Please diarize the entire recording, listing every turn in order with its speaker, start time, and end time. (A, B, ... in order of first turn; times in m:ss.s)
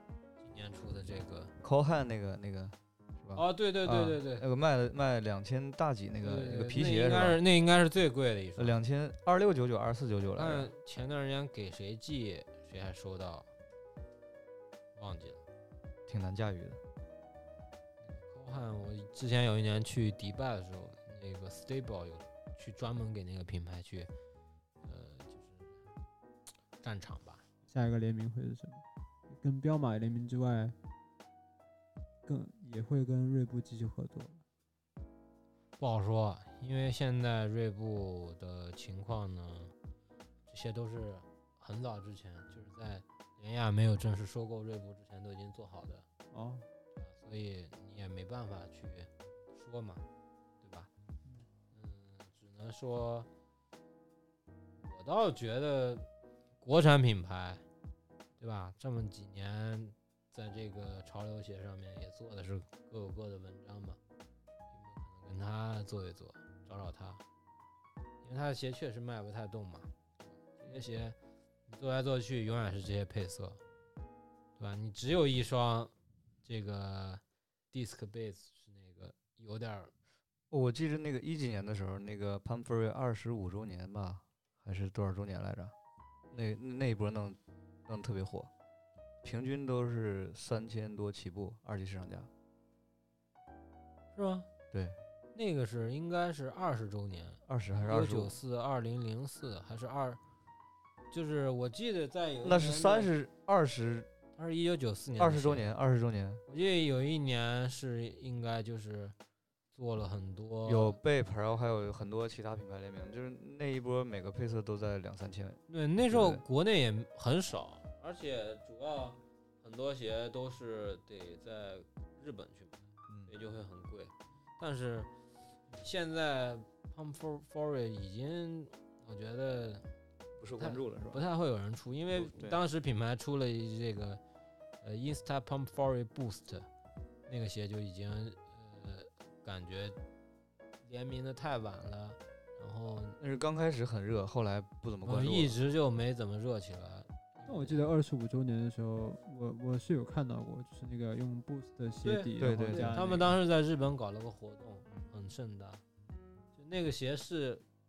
0:00.4-0:01.5 A
0:01.6-0:07.4 B
0:03.3-0:04.4 A
0:06.2-0:08.8 A
0:08.6-0:10.7 B
0:10.4-0:13.5 A
0:15.0-0:15.4 A
0:16.1-0:16.8 B
0:18.0-0:24.1 A
0:24.8-0:25.8 A
0:26.8-0:27.4 A
0:27.7-0:30.7 C
0:32.2-0:34.4 C
0:35.8-0:39.7 A
0:40.5-0:46.0 A
0:46.3-0:46.7 C
0:46.9-0:50.0 A
0:50.6-0:50.9 A
0:51.7-0:53.3 A
0:54.8-0:56.1 A
0:56.6-0:57.6 A
0:58.4-1:04.0 A
1:04.7-1:07.2 A
1:08.2-1:11.2 A
1:11.7-1:13.6 A
1:14.6-1:15.9 A
1:16.4-1:19.9 A
1:20.5-1:25.7 B
1:26.3-1:28.5 B
1:29.2-1:32.3 B
1:34.1-1:34.5 A
1:34.7-1:35.0 B
1:35.3-1:40.2 A
1:37.5-1:38.4 B
1:41.1-1:43.1 A
1:42.4-1:44.1 B
1:44.3-1:45.7 A
1:45.2-1:46.4 B
1:46.5-1:49.1 A
1:49.7-1:51.0 A
1:50.6-1:56.4 B
1:55.7-2:05.1 A
2:05.7-2:09.8 A
2:10.4-2:11.2 B
2:10.5-2:14.2 A
2:12.1-2:12.6 B
2:14.8-2:16.7 A
2:17.3-2:20.0 A
2:20.8-2:23.2 A
2:23.2-2:25.6 B
2:25.0-2:27.9 A
2:27.4-2:33.3 C
2:32.0-2:35.8 A
2:32.4-2:33.2 B
2:36.6-2:37.6 A